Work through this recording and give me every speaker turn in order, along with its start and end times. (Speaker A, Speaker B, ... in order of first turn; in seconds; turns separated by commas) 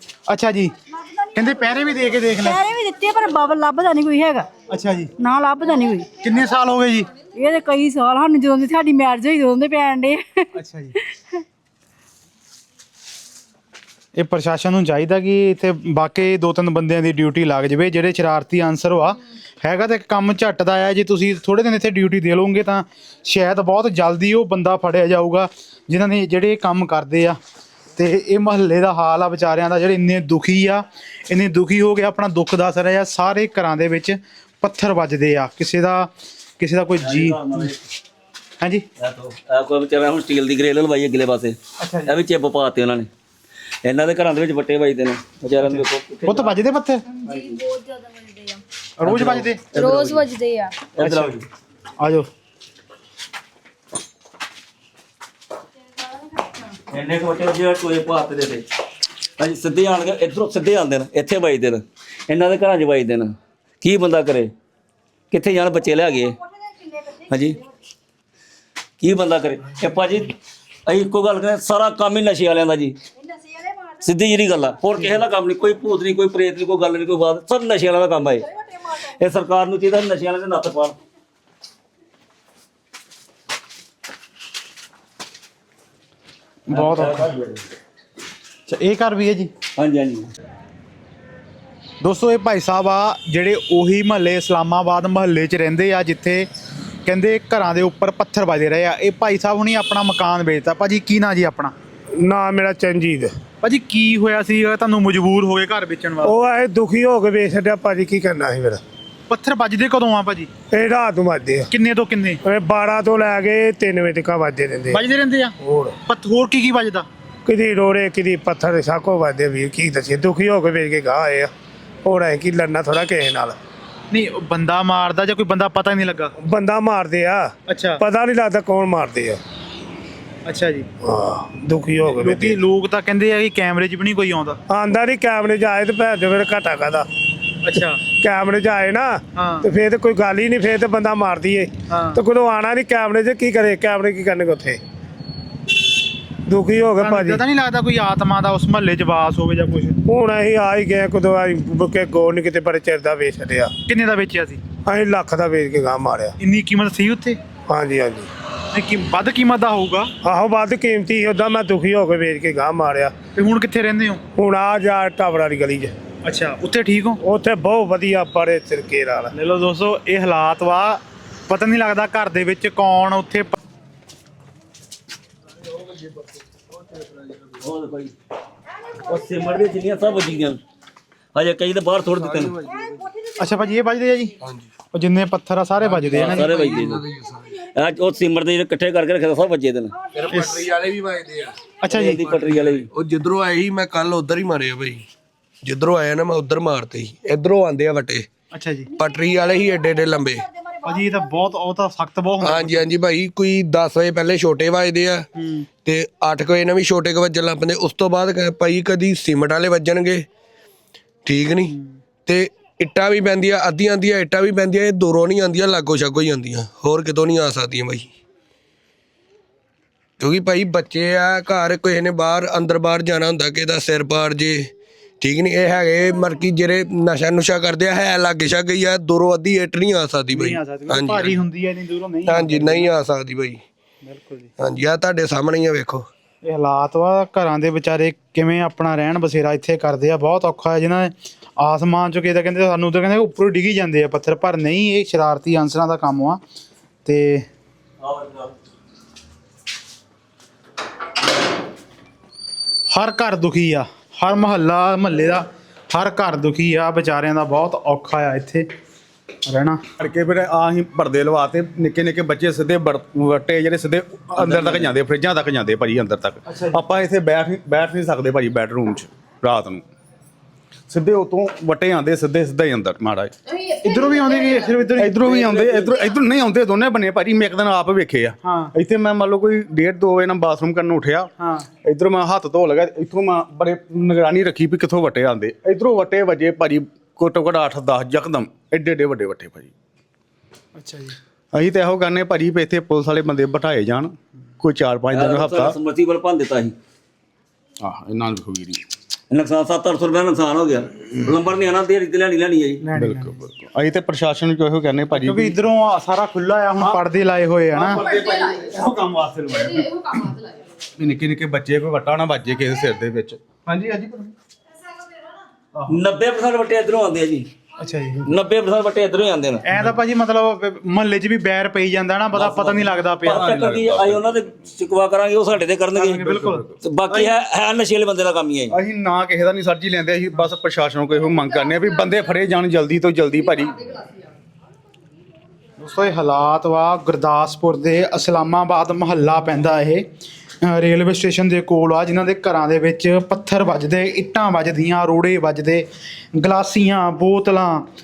Speaker A: 0.3-0.7, Speaker B: 0.9-1.7, Speaker A: 1.4-2.6, Speaker B: 2.4-4.5, Speaker A: 4.7-5.1, Speaker B: 5.2-6.1, Speaker A: 6.2-7.1, Speaker B: 7.3-10.5, Speaker A: 10.6-11.0, Speaker A: 14.2-27.4, Speaker A: 28.0-37.7, Speaker C: 37.0-37.8, Speaker C: 39.0-43.1, Speaker A: 41.8-42.1, Speaker C: 43.9-46.5, Speaker A: 45.6-47.0, Speaker B: 47.4-47.9, Speaker D: 47.4-48.5, Speaker A: 49.0-49.9, Speaker C: 49.1-50.1, Speaker B: 49.7-50.8, Speaker C: 51.0-51.5, Speaker A: 51.0-51.4, Speaker A: 52.0-52.3, Speaker C: 56.9-58.6, Speaker C: 59.4-64.5, Speaker C: 65.3-66.4, Speaker B: 66.8-67.6, Speaker C: 67.3-67.6, Speaker C: 69.0-70.3, Speaker C: 70.9-73.0, Speaker B: 73.2-74.3, Speaker C: 74.0-78.5, Speaker C: 79.0-81.0, Speaker A: 86.7-87.3, Speaker C: 86.7-87.6, Speaker A: 88.7-89.5, Speaker C: 89.8-90.3, Speaker A: 92.0-96.5, Speaker A: 97.1-101.7, Speaker E: 102.1-103.3, Speaker A: 103.6-106.3, Speaker E: 106.2-108.8, Speaker A: 109.3-110.5, Speaker E: 110.7-111.7, Speaker A: 111.7-112.4, Speaker E: 112.4-115.0, Speaker A: 114.9-115.5, Speaker E: 115.6-116.0, Speaker A: 116.1-117.1, Speaker E: 117.5-121.5, Speaker E: 122.0-123.6, Speaker A: 124.1-126.3, Speaker E: 126.4-129.4, Speaker A: 127.7-128.0, Speaker A: 130.5-130.9, Speaker E: 131.0-132.6, Speaker A: 132.1-134.6, Speaker E: 134.7-137.1, Speaker A: 137.6-138.0, Speaker E: 138.1-144.8, Speaker A: 139.4-139.7, Speaker A: 141.9-142.2, Speaker E: 146.5-147.4, Speaker A: 147.0-150.0, Speaker E: 150.1-153.7, Speaker A: 153.9-154.6, Speaker E: 154.8-156.4, Speaker A: 156.4-157.4, Speaker E: 157.7-158.3, Speaker A: 158.7-160.1, Speaker E: 160.2-163.1, Speaker A: 163.3-164.2, Speaker E: 164.4-165.9, Speaker A: 166.2-167.2, Speaker E: 167.2-169.3, Speaker A: 169.3-173.6, Speaker C: 177.6-178.1, Speaker C: 179.1-180.6, Speaker C: 181.3-182.6, Speaker F: 182.2-182.9, Speaker B: 182.9-183.4, Speaker A: 183.4-184.3, Speaker F: 184.4-184.7, Speaker A: 184.9-186.5, Speaker C: 186.1-187.1, Speaker F: 186.1-187.6, Speaker C: 187.7-189.9, Speaker F: 190.2-191.6, Speaker A: 190.3-190.6, Speaker A: 191.8-192.2, Speaker C: 191.9-192.9, Speaker F: 192.2-195.0, Speaker F: 195.6-198.3, Speaker A: 198.5-198.9, Speaker F: 199.0-200.5, Speaker A: 200.8-202.9, Speaker F: 202.4-205.2, Speaker A: 205.4-205.7, Speaker F: 205.8-210.2, Speaker F: 211.2-211.7, Speaker F: 212.3-218.1, Speaker F: 220.2-224.7, Speaker F: 225.2-231.4, Speaker A: 230.3-232.9, Speaker F: 232.3-233.6, Speaker A: 234.0-234.5, Speaker F: 234.6-236.1, Speaker A: 236.4-246.4, Speaker A: 247.1-247.5, Speaker C: 248.0-248.5, Speaker A: 252.9-258.7, Speaker A: 259.5-259.8, Speaker G: 260.0-269.8, Speaker A: 266.5-266.8, Speaker G: 270.9-273.3, Speaker D: 273.5-274.9, Speaker A: 273.8-275.6, Speaker G: 275.0-281.3, Speaker D: 275.4-276.1, Speaker A: 278.4-278.7, Speaker A: 281.4-281.7, Speaker G: 281.8-289.7, Speaker A: 290.8-291.2, Speaker G: 291.5-295.8, Speaker C: 295.1-296.8, Speaker G: 297.8-298.8, Speaker C: 299.3-302.8, Speaker A: 302.8-303.5, Speaker G: 302.9-305.6, Speaker A: 305.1-308.1, Speaker G: 307.7-309.8, Speaker D: 308.2-308.7, Speaker D: 309.8-310.6, Speaker G: 311.0-314.3, Speaker G: 315.8-316.0, Speaker C: 315.9-317.5, Speaker A: 317.8-318.3, Speaker C: 318.3-319.7, Speaker A: 319.7-323.6, Speaker C: 322.4-328.8, Speaker G: 323.3-324.3, Speaker A: 326.0-326.6, Speaker G: 326.4-327.4, Speaker G: 328.7-333.8, Speaker D: 331.5-332.3, Speaker A: 335.8-340.1, Speaker A: 340.6-347.9